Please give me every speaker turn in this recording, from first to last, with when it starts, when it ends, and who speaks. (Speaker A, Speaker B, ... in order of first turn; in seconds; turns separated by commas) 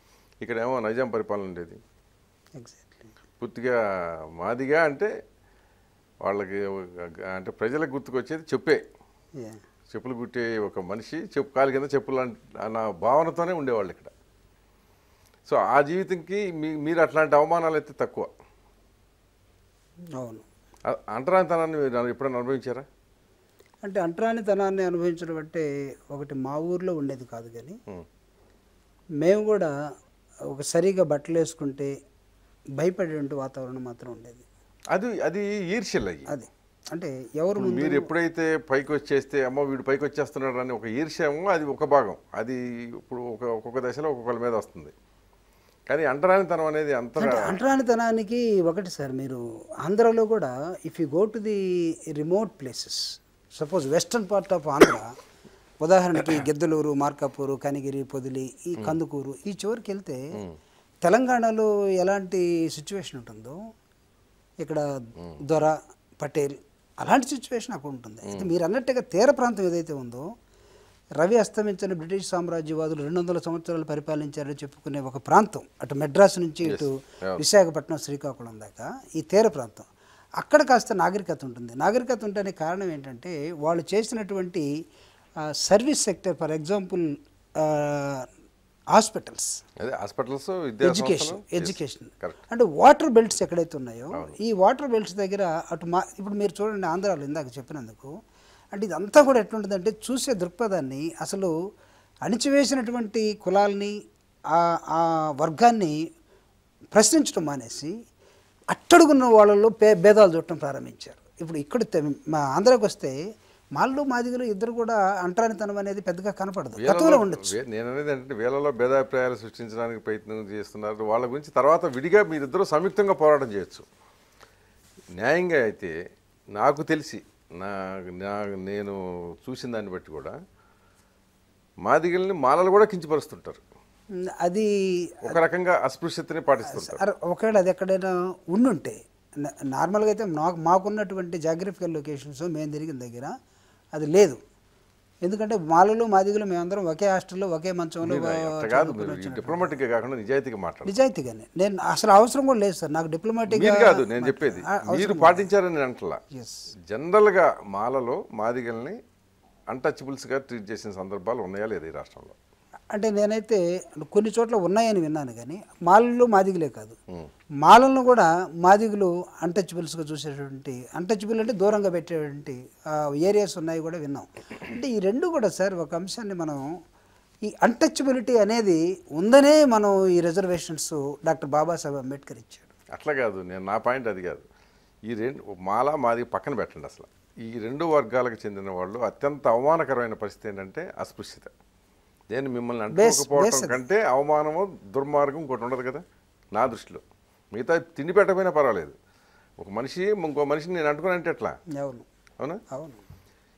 Speaker A: 0.4-1.8, Speaker B: 2.6-3.1, Speaker A: 3.4-5.1, Speaker A: 6.2-8.8, Speaker B: 9.4-9.6, Speaker A: 9.9-14.1, Speaker A: 15.5-18.3, Speaker B: 20.2-20.4, Speaker A: 20.9-22.9, Speaker B: 23.8-27.8, Speaker B: 29.2-29.7, Speaker B: 30.5-31.9, Speaker B: 32.8-34.4, Speaker A: 34.9-36.3, Speaker B: 36.3-38.1, Speaker A: 37.6-44.9, Speaker A: 45.9-47.6, Speaker B: 47.2-55.1, Speaker B: 55.8-60.2, Speaker B: 61.0-63.6, Speaker B: 65.4-70.3, Speaker B: 71.2-79.9, Speaker A: 76.6-77.4, Speaker B: 80.4-84.7, Speaker B: 85.4-88.3, Speaker B: 88.9-89.6, Speaker A: 89.8-92.4, Speaker B: 90.8-98.1, Speaker B: 98.7-101.5, Speaker B: 102.2-104.0, Speaker B: 104.5-106.0, Speaker B: 106.9-107.9, Speaker B: 108.7-113.2, Speaker B: 113.8-117.6, Speaker A: 116.8-123.9, Speaker A: 125.2-126.0, Speaker A: 126.6-130.4, Speaker A: 131.8-133.6, Speaker B: 134.3-135.4, Speaker A: 135.2-137.0, Speaker B: 136.7-143.3, Speaker B: 143.9-144.4, Speaker B: 145.2-149.7, Speaker A: 148.0-150.9, Speaker B: 150.9-155.5, Speaker A: 153.5-156.2, Speaker B: 156.3-156.6, Speaker A: 156.9-159.0, Speaker A: 159.7-162.3, Speaker B: 162.9-167.0, Speaker B: 167.6-176.7, Speaker B: 177.4-182.7, Speaker A: 182.9-184.4, Speaker A: 185.1-191.5, Speaker A: 192.3-198.9, Speaker B: 192.9-193.8, Speaker A: 199.6-201.6, Speaker B: 201.7-202.1, Speaker B: 202.7-203.0